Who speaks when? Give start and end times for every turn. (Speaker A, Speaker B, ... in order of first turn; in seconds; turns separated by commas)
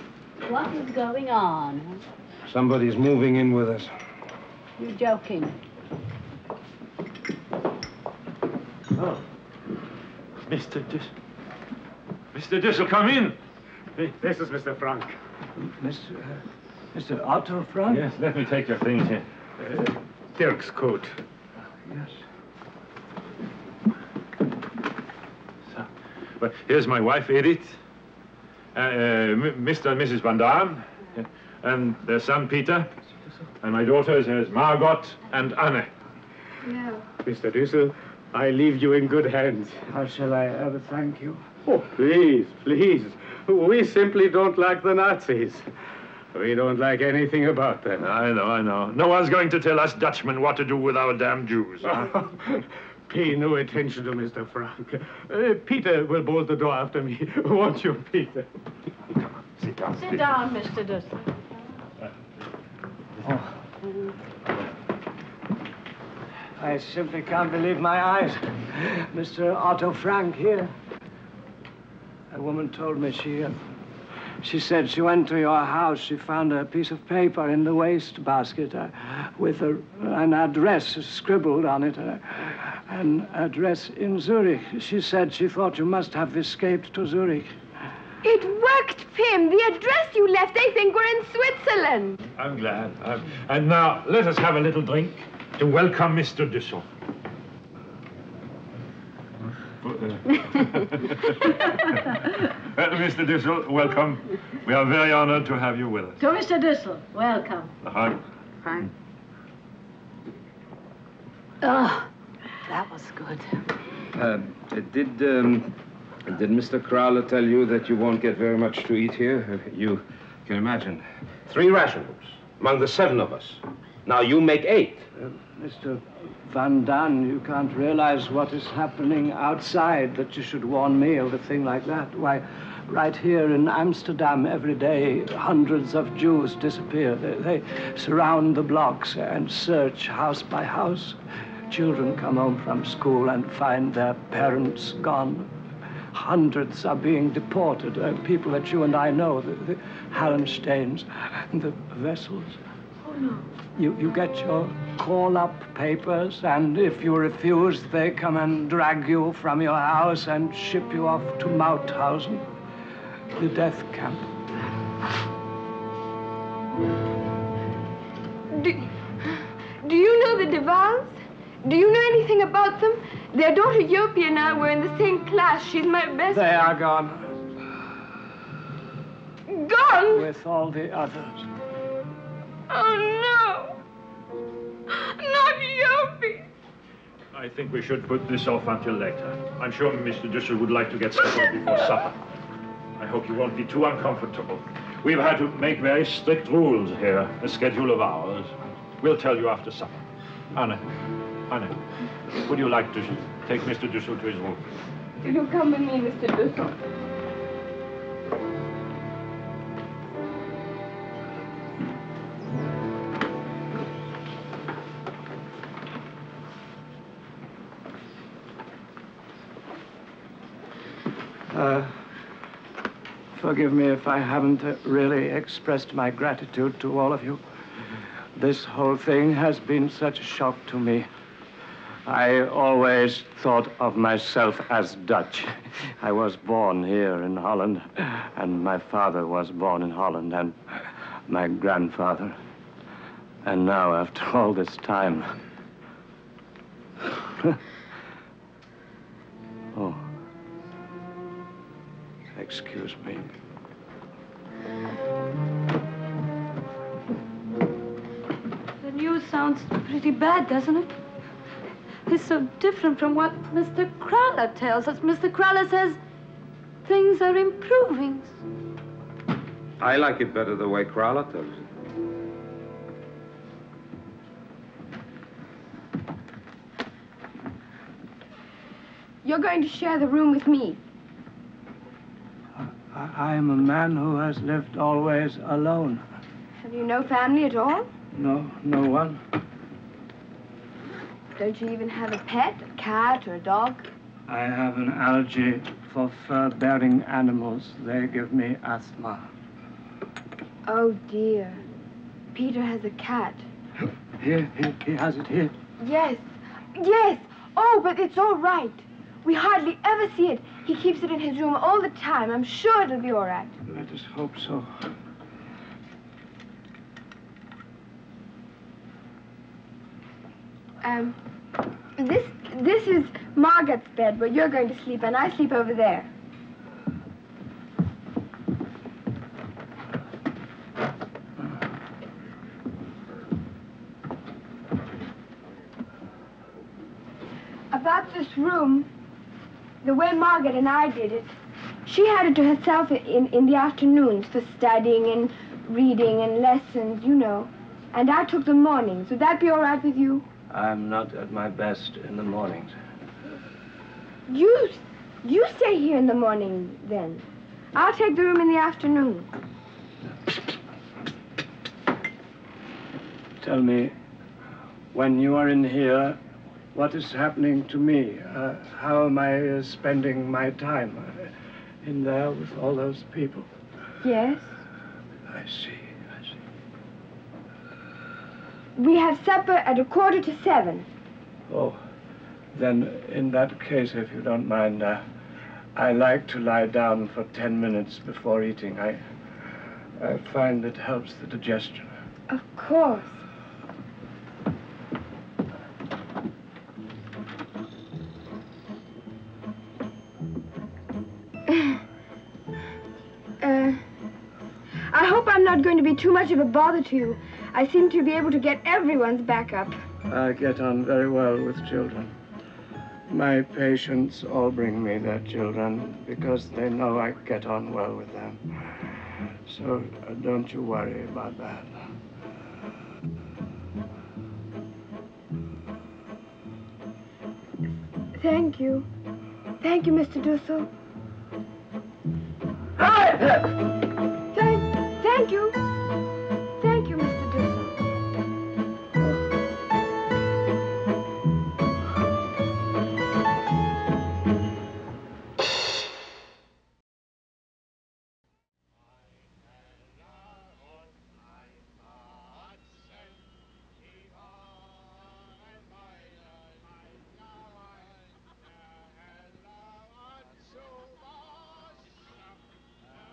Speaker A: 0.4-2.0, Speaker B: 2.4-3.9, Speaker A: 4.8-5.5, Speaker C: 10.5-11.1, Speaker C: 12.3-13.4, Speaker D: 14.0-15.2, Speaker E: 15.6-16.4, Speaker E: 16.9-18.1, Speaker C: 17.9-19.3, Speaker D: 20.3-21.1, Speaker E: 21.9-22.1, Speaker C: 26.4-27.8, Speaker C: 28.7-32.9, Speaker C: 33.6-35.9, Speaker F: 36.6-37.0, Speaker D: 37.2-39.8, Speaker E: 39.9-41.4, Speaker D: 41.6-45.7, Speaker D: 46.3-48.1, Speaker C: 48.0-52.1, Speaker D: 51.9-58.5, Speaker C: 59.4-60.4, Speaker G: 59.9-61.5, Speaker E: 66.6-70.7, Speaker E: 72.3-73.6, Speaker E: 74.4-87.5, Speaker F: 88.2-92.2, Speaker C: 92.4-96.8, Speaker C: 99.8-102.1, Speaker C: 102.7-106.2, Speaker G: 106.2-107.7, Speaker C: 107.8-108.2, Speaker H: 112.8-113.2, Speaker B: 114.1-115.7, Speaker B: 116.3-125.0, Speaker E: 125.2-141.2, Speaker E: 141.7-145.5, Speaker E: 146.1-152.6, Speaker H: 153.1-153.4, Speaker E: 153.7-162.5, Speaker E: 163.3-164.3, Speaker F: 168.5-176.6, Speaker E: 176.3-177.4, Speaker F: 179.5-180.3, Speaker E: 180.1-181.5, Speaker F: 182.7-183.8, Speaker F: 184.9-186.5, Speaker C: 187.3-192.2, Speaker C: 193.0-200.8, Speaker C: 201.5-201.8, Speaker C: 202.4-204.6, Speaker F: 205.2-206.8, Speaker E: 221.5-222.0, Speaker E: 223.3-227.4, Speaker E: 228.3-231.1, Speaker E: 232.0-240.6, Speaker E: 241.3-242.3, Speaker E: 243.4-245.3, Speaker E: 249.7-250.1, Speaker E: 252.3-253.3, Speaker H: 258.8-260.9, Speaker H: 262.1-266.0, Speaker H: 266.8-268.4, Speaker B: 269.8-271.6, Speaker F: 279.2-280.8, Speaker E: 282.9-286.0, Speaker F: 286.6-287.9, Speaker E: 288.1-289.2, Speaker F: 291.4-293.9, Speaker E: 294.3-299.2, Speaker F: 300.6-301.6, Speaker F: 302.3-303.4, Speaker E: 304.2-305.5, Speaker F: 305.8-313.5, Speaker E: 313.6-314.7, Speaker F: 320.8-321.2, Speaker F: 322.0-326.1, Speaker F: 337.7-338.9, Speaker F: 339.8-341.3, Speaker F: 341.9-350.2, Speaker E: 350.5-352.7, Speaker F: 354.3-359.3, Speaker E: 363.4-363.9, Speaker E: 364.9-366.2, Speaker E: 366.7-371.3, Speaker E: 371.8-373.5, Speaker F: 374.0-374.5, Speaker E: 375.3-376.2, Speaker F: 378.8-380.9, Speaker E: 381.5-381.8, Speaker E: 382.5-385.0, Speaker E: 385.8-389.0, Speaker E: 390.0-391.9, Speaker F: 392.3-393.2, Speaker F: 401.5-401.8, Speaker F: 403.4-403.8, Speaker F: 404.9-409.7, Speaker E: 410.1-412.1, Speaker E: 413.1-418.4, Speaker E: 419.5-421.6, Speaker F: 428.1-428.9, Speaker F: 429.6-430.7, Speaker E: 432.8-433.3, Speaker F: 434.3-435.6, Speaker F: 436.6-437.7